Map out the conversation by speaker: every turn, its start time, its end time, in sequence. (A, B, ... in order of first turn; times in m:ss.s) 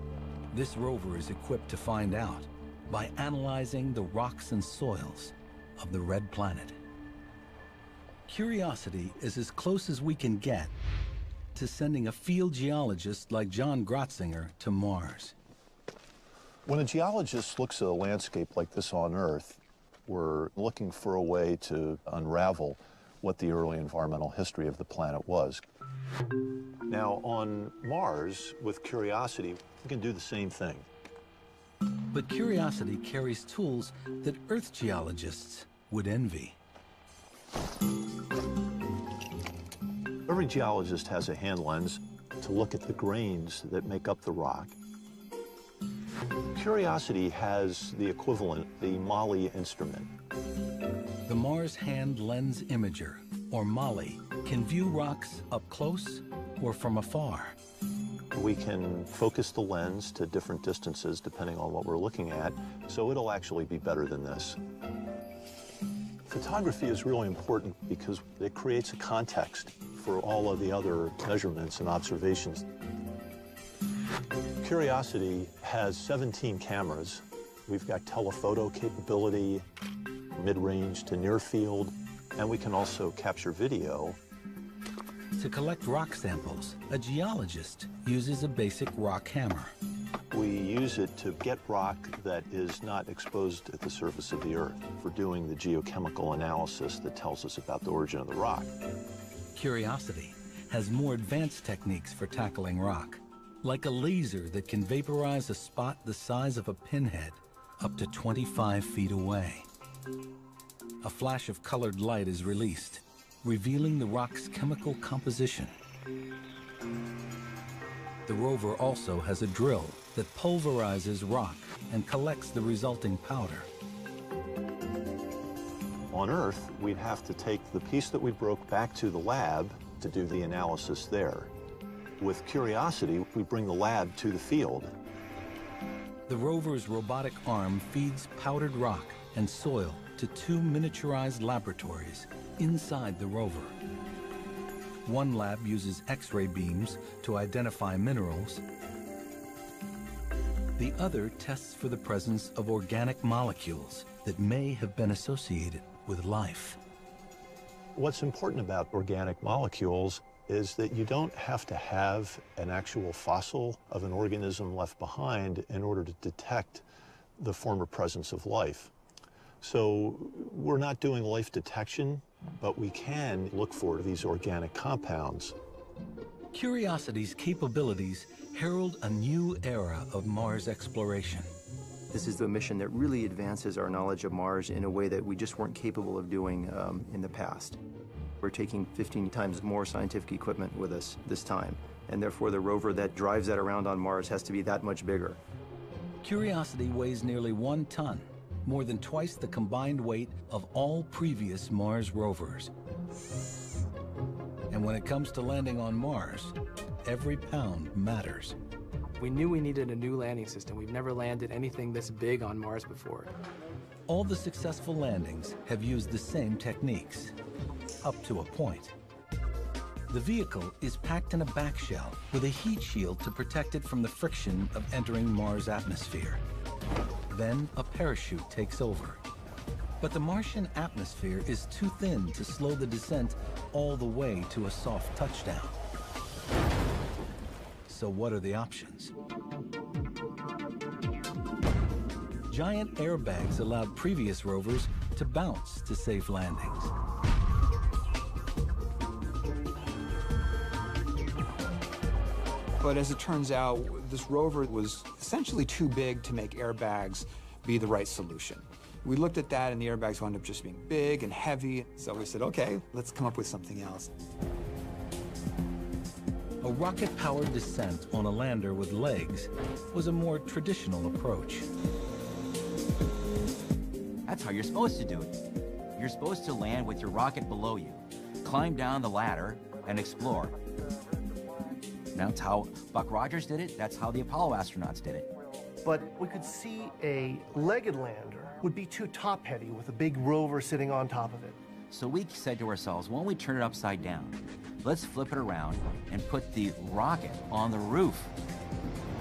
0:00.5-0:06.8 A
0:08.3-0:10.7 A
0:11.6-0:15.4 A
0:16.6-0:25.6 B
0:26.9-0:30.9 B
0:32.1-0:36.6 A
0:40.3-0:44.8 B
0:46.5-0:50.1 B
0:51.3-0:57.6 A
0:58.3-1:04.6 B
1:06.3-1:12.7 B
1:14.6-1:19.7 B
1:20.3-1:24.2 B
1:25.4-1:29.7 A
1:30.3-1:38.7 B
1:39.6-1:49.7 A
1:51.0-1:55.8 A
1:58.3-2:03.7 A
2:06.1-2:11.5 B
2:12.2-2:15.0 B
2:16.3-2:23.8 A
2:25.1-2:28.6 A
2:30.8-2:36.8 A
2:38.0-2:46.8 B
2:47.4-2:48.9 B
2:49.6-2:55.6 B
2:56.5-3:01.5 A
3:02.1-3:07.8 C
3:08.4-3:15.4 C
3:16.2-3:22.7 A
3:24.7-3:28.6 A
3:29.2-3:33.3 D
3:34.1-3:37.3 A
3:38.0-3:38.9 A
3:40.1-3:46.4 A
3:47.3-3:49.2 A
3:50.0-3:55.8 A
3:57.9-3:59.1 A
4:02.5-4:06.9 A
4:12.8-4:24.1 E
4:26.6-4:31.7 A
4:34.3-4:35.4 F
4:36.0-4:40.6 F
4:42.1-4:45.3 F
4:45.8-4:51.6 G
4:51.9-4:58.3 F